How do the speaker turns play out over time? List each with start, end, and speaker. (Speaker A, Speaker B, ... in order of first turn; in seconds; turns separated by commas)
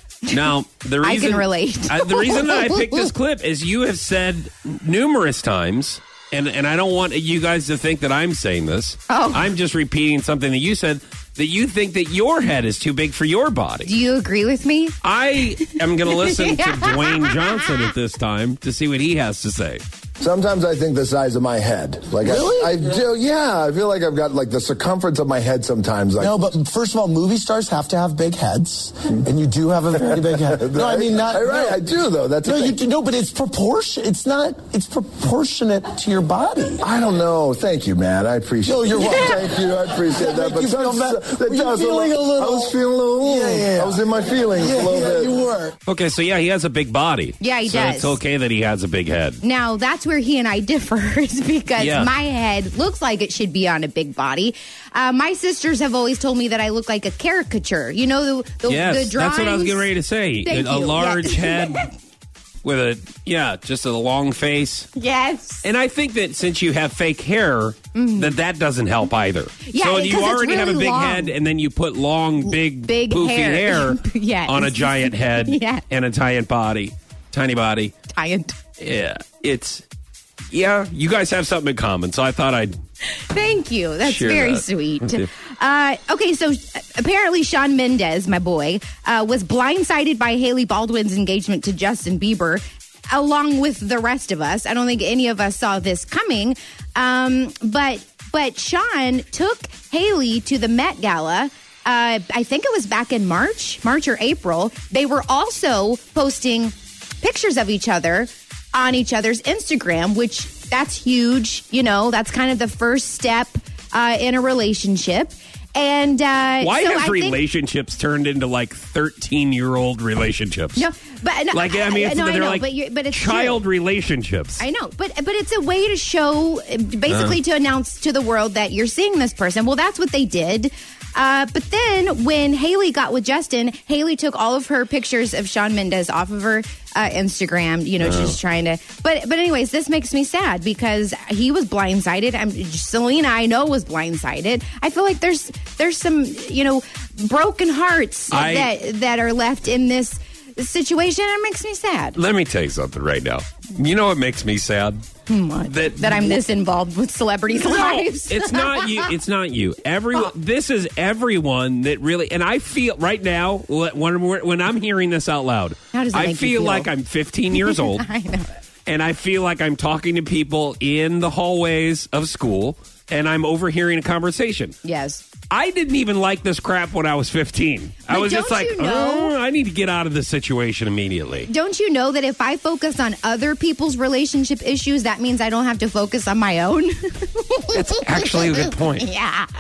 Speaker A: 0.3-13.9, Speaker B: 1.0-3.1, Speaker B: 9.1-9.5, Speaker B: 13.9-15.0, Speaker A: 15.0-19.8, Speaker B: 15.7-17.9, Speaker C: 20.2-26.5, Speaker D: 22.2-22.9, Speaker D: 26.2-31.8, Speaker C: 29.9-32.8, Speaker D: 32.4-36.8, Speaker C: 36.8-45.4, Speaker D: 38.6-45.8, Speaker A: 45.9-49.4, Speaker B: 47.4-48.2, Speaker B: 49.4-61.9, Speaker A: 51.8-52.1, Speaker A: 58.7-61.9, Speaker A: 62.6-64.9, Speaker B: 65.0-65.6, Speaker A: 65.6-77.9, Speaker B: 67.9-68.4, Speaker B: 69.6-71.3, Speaker B: 72.5-75.8, Speaker B: 78.1-78.6, Speaker A: 78.8-79.8, Speaker A: 80.5-82.8, Speaker B: 83.1-117.4, Speaker A: 84.0-85.3, Speaker A: 116.6-120.9, Speaker B: 120.8-123.7, Speaker A: 121.5-124.7, Speaker B: 124.6-152.2, Speaker A: 127.1-127.4, Speaker A: 138.0-138.4, Speaker A: 148.3-148.7, Speaker A: 152.2-155.0, Speaker B: 155.3-159.1, Speaker A: 155.7-156.4, Speaker A: 157.5-168.1, Speaker B: 165.9-166.9, Speaker B: 167.5-168.6, Speaker A: 168.9-174.8, Speaker B: 174.8-175.2, Speaker A: 175.5-181.5, Speaker B: 178.1-179.3, Speaker B: 181.5-189.5, Speaker A: 187.7-189.1